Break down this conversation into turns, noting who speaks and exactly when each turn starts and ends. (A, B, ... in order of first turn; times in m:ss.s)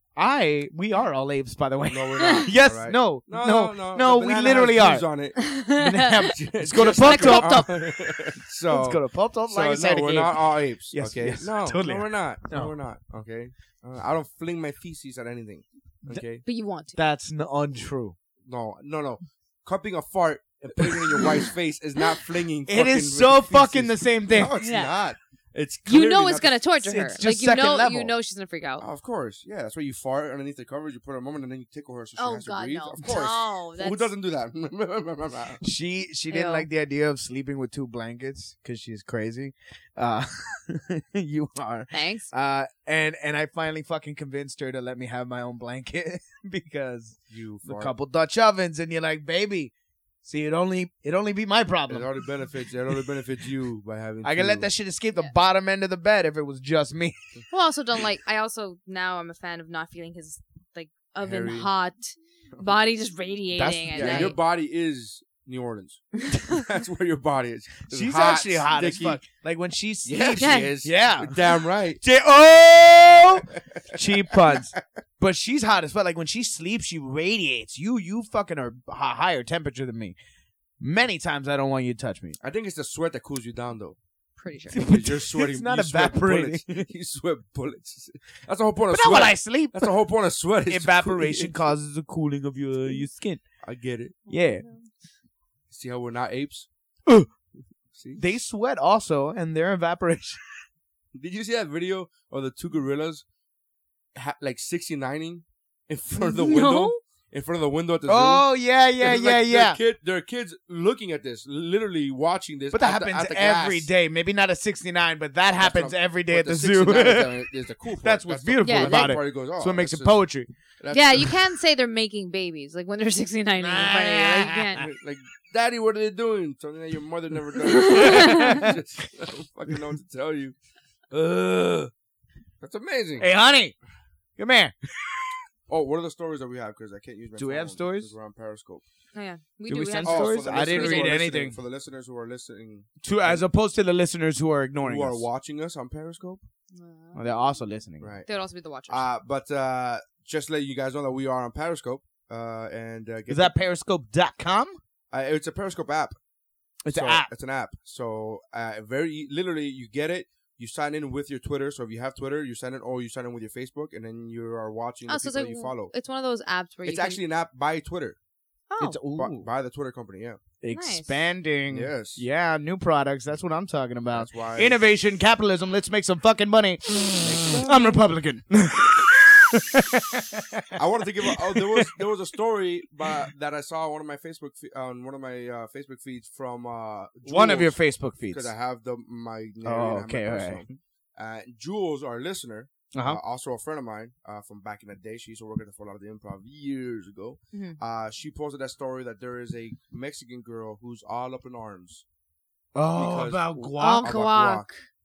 0:00.2-0:05.1 A
0:01.9-0:05.6 B
0:05.4-0:07.7 C
0:05.8-0:07.6 A
0:06.2-0:16.4 B
0:08.7-0:12.7 A
0:16.4-0:17.0 C
0:16.9-0:18.2 A
0:18.4-0:26.6 B
0:22.7-0:24.6 A
0:24.6-0:24.9 C
0:25.9-0:28.9 C
0:26.8-0:28.1 A
0:28.8-0:35.6 B
0:32.2-0:34.1 C
0:35.6-0:49.7 A
0:36.3-0:36.7 C
0:41.9-0:42.3 C
0:47.3-0:47.9 B
0:50.2-0:52.1 A
0:51.9-0:54.7 B
0:54.2-0:57.2 A
0:57.5-1:04.3 C
1:01.2-1:01.7 B
1:03.6-1:04.4 A
1:03.9-1:09.2 B
1:07.9-1:11.4 A
1:10.0-1:12.0 B
1:10.4-1:10.7 C
1:12.0-1:20.2 A
1:13.9-1:14.6 B
1:20.8-1:22.4 A
1:22.4-1:24.0 B
1:24.4-1:24.8 C
1:24.7-1:26.9 A
1:24.8-1:31.6 B
1:28.9-1:29.9 A
1:30.7-1:33.5 A
1:33.6-1:34.2 B
1:34.3-1:34.7 A
1:34.3-1:34.9 C
1:35.7-1:36.7 B
1:37.9-1:38.2 B
1:38.2-1:40.4 A
1:41.1-1:43.2 B
1:44.1-1:53.9 B
1:46.2-1:47.0 C
1:48.1-1:49.8 A
1:52.7-1:57.3 A
1:55.6-2:01.3 B
1:58.0-2:00.5 A
1:58.6-1:59.2 C
2:00.9-2:04.9 C
2:03.6-2:04.7 A
2:04.8-2:10.6 B
2:07.7-2:08.6 C
2:08.3-2:08.7 A
2:11.1-2:11.9 B
2:12.6-2:13.3 B
2:13.2-2:13.8 A
2:14.4-2:15.2 A
2:15.7-2:18.8 B
2:17.4-2:18.1 A
2:19.1-2:21.2 C
2:19.7-2:21.6 A
2:20.0-2:23.4 B
2:23.0-2:25.3 A
2:24.8-2:26.4 B
2:26.7-2:27.6 C
2:27.2-2:28.1 A
2:28.0-2:28.3 B
2:28.3-2:29.0 C
2:28.9-2:33.6 B
2:33.3-2:34.8 A
2:35.1-2:36.2 B
2:36.8-2:37.3 A
2:36.9-2:45.9 B
2:45.1-2:47.2 C
2:46.8-2:48.2 B
2:48.7-2:49.0 C
2:48.8-2:49.5 A
2:49.1-2:50.4 B
2:50.6-3:00.6 A
2:50.7-2:51.2 C
2:51.7-2:52.2 B
2:54.1-2:54.8 B
2:57.2-2:58.0 B
3:00.8-3:22.0 B
3:01.3-3:01.9 A
3:07.2-3:08.5 A
3:09.6-3:10.7 A
3:12.9-3:13.2 A
3:17.5-3:17.8 C
3:22.8-3:24.1 A
3:22.9-3:24.7 B
3:23.8-3:24.8 C